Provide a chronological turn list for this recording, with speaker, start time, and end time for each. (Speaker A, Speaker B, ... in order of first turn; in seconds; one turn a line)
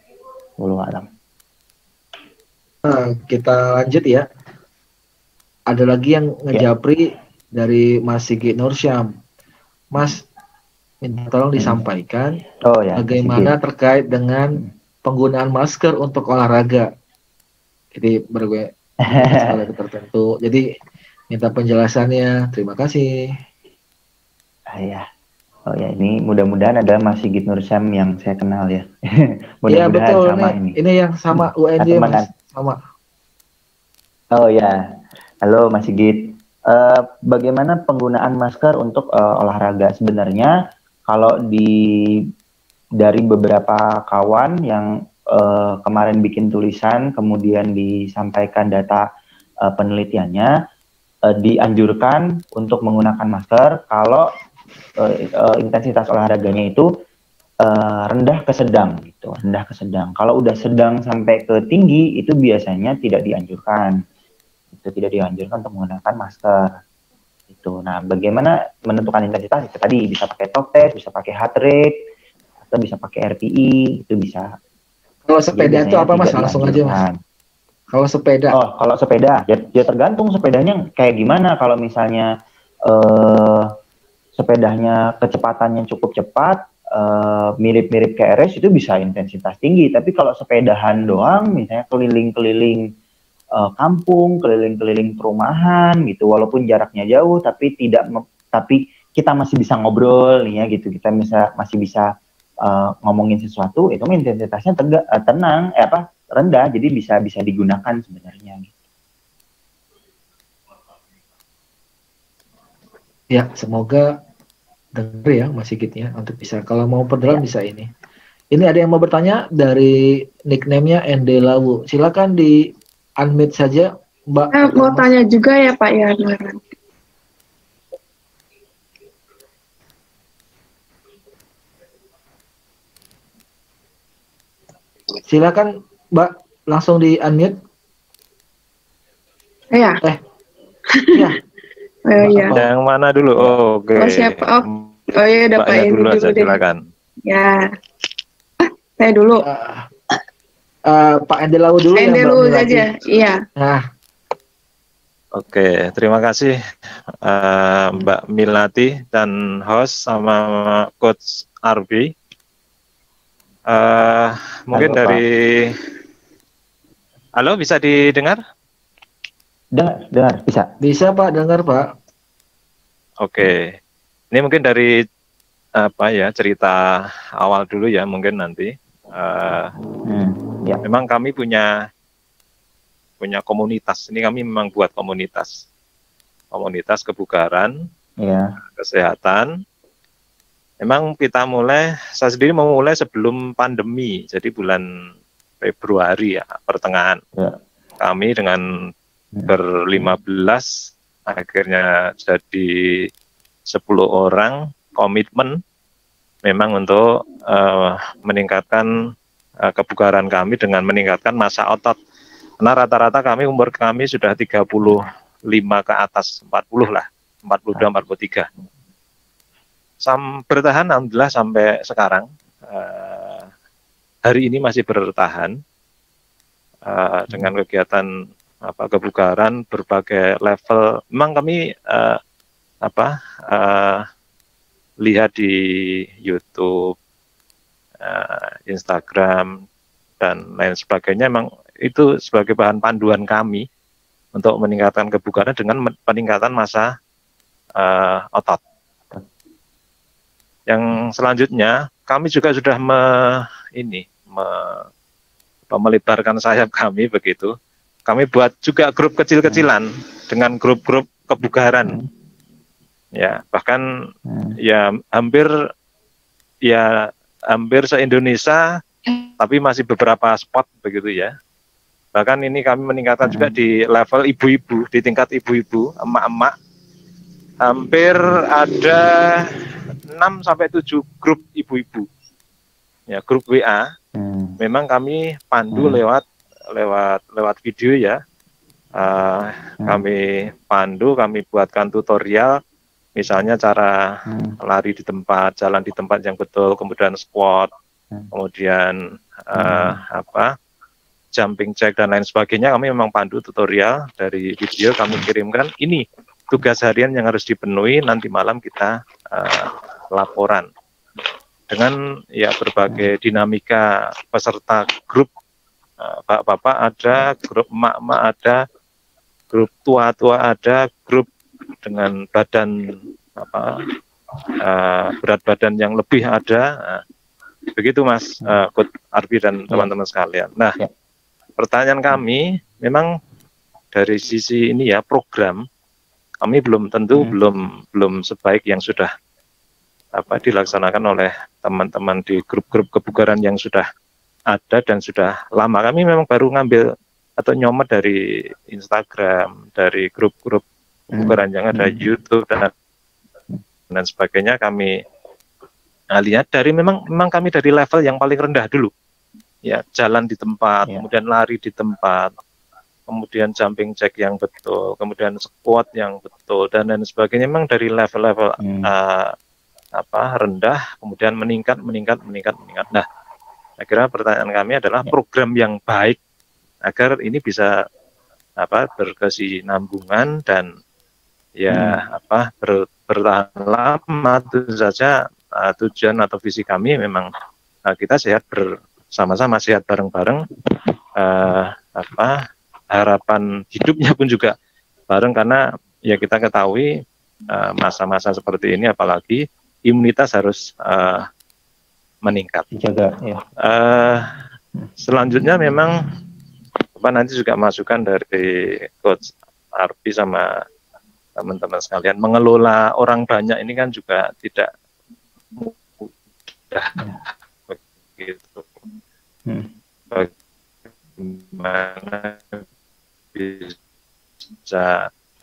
Speaker A: 0.6-1.1
Speaker B: 2.8-4.2
Speaker B: 5.7-9.1
Speaker B: 9.9-10.2
Speaker B: 11.0-12.4
Speaker A: 12.7-13.5
Speaker B: 12.9-16.9
Speaker B: 17.9-20.6
Speaker A: 19.1-19.6
Speaker B: 21.3-23.3
Speaker A: 24.7-25.0
Speaker A: 25.7-30.8
Speaker B: 29.7-32.8
Speaker A: 31.3-32.3
Speaker A: 34.3-34.8
Speaker A: 35.4-40.5
Speaker A: 41.1-41.8
Speaker A: 43.0-49.0
Speaker A: 49.6-50.5
Speaker A: 51.3-54.3
Speaker A: 55.0-56.9
Speaker A: 57.6-64.0
Speaker A: 64.7-66.8
Speaker A: 67.5-71.9
Speaker A: 72.6-74.5
Speaker B: 75.3-77.0
Speaker A: 75.5-77.2
Speaker B: 77.9-78.6
Speaker A: 78.5-82.3
Speaker A: 82.9-83.7
Speaker A: 84.3-92.8
Speaker A: 93.6-102.1
Speaker A: 102.6-108.7
Speaker B: 113.3-114.2
Speaker B: 114.9-117.9
Speaker B: 118.5-125.1
Speaker C: 124.5-126.6
Speaker B: 135.2-137.6
Speaker C: 139.7-140.0
Speaker C: 140.9-141.2
Speaker C: 142.1-142.5
Speaker B: 142.2-142.7
Speaker D: 142.5-144.9
Speaker C: 144.0-146.6
Speaker D: 145.6-146.8
Speaker C: 147.2-147.7
Speaker C: 148.6-149.4
Speaker B: 149.4-149.9
Speaker B: 150.9-152.9
Speaker C: 151.9-153.4
Speaker B: 153.6-153.8
Speaker D: 155.3-156.5
Speaker D: 157.2-162.1
Speaker D: 163.7-165.7
Speaker A: 164.7-165.2
Speaker D: 167.4-168.4
Speaker A: 169.7-170.7
Speaker B: 170.8-171.9
Speaker D: 173.2-173.7
Speaker D: 174.3-174.9
Speaker D: 175.8-179.7
Speaker A: 180.1-180.8
Speaker D: 180.8-181.7
Speaker D: 183.2-185.6
Speaker D: 186.5-187.7
Speaker A: 188.2-188.5
Speaker D: 188.8-189.5
Speaker D: 190.8-194.8
Speaker D: 195.6-197.2
Speaker D: 198.0-198.6
Speaker A: 199.3-200.1
Speaker D: 199.5-200.7
Speaker D: 201.3-203.1
Speaker D: 203.7-205.6
Speaker D: 206.4-208.9
Speaker D: 209.6-212.0
Speaker D: 212.6-218.5
Speaker D: 220.0-223.4
Speaker D: 224.2-225.5
Speaker D: 226.9-228.1
Speaker D: 228.6-232.2
Speaker D: 232.8-234.0
Speaker D: 235.0-236.9
Speaker D: 238.0-239.5
Speaker D: 240.2-243.6
Speaker D: 244.3-246.9
Speaker D: 247.8-248.6
Speaker D: 250.7-254.9
Speaker D: 255.7-257.5
Speaker D: 258.1-261.9
Speaker D: 263.1-263.8
Speaker A: 264.3-264.6
Speaker D: 264.6-265.5
Speaker D: 267.5-268.6
Speaker D: 269.2-271.3
Speaker D: 272.1-276.5
Speaker A: 273.2-273.5
Speaker D: 277.6-279.4
Speaker D: 280.1-282.1
Speaker D: 283.1-283.8
Speaker A: 284.1-284.6
Speaker D: 284.6-288.2
Speaker A: 285.7-286.0
Speaker D: 289.0-292.6
Speaker D: 293.1-297.7
Speaker A: 294.3-294.6
Speaker D: 298.3-300.5
Speaker A: 299.5-300.0
Speaker D: 301.4-310.7
Speaker D: 311.7-315.3
Speaker D: 316.0-318.6
Speaker D: 319.5-321.3
Speaker D: 321.8-323.8
Speaker D: 324.6-327.0
Speaker D: 327.7-330.7
Speaker D: 331.6-333.1
Speaker D: 333.9-335.6
Speaker D: 336.4-339.1
Speaker D: 340.1-343.9
Speaker D: 344.5-346.8
Speaker D: 347.4-352.7
Speaker A: 351.1-352.1
Speaker D: 353.9-354.9
Speaker D: 356.1-358.9
Speaker D: 359.6-362.3
Speaker D: 363.1-369.3
Speaker A: 368.6-368.9
Speaker D: 370.0-373.0
Speaker D: 373.8-376.2
Speaker D: 376.9-377.7
Speaker D: 378.6-380.7
Speaker D: 381.6-387.3
Speaker A: 381.7-382.0
Speaker D: 387.9-390.4
Speaker D: 391.1-392.4
Speaker D: 392.9-394.5
Speaker D: 395.1-396.9
Speaker D: 397.5-401.2
Speaker D: 402.2-402.7
Speaker A: 402.7-403.4
Speaker D: 403.6-404.3
Speaker D: 405.0-406.0
Speaker D: 407.0-410.5
Speaker D: 411.4-414.7
Speaker D: 415.6-416.1
Speaker D: 416.7-418.8
Speaker D: 421.1-422.6
Speaker D: 423.3-423.8
Speaker D: 424.6-425.1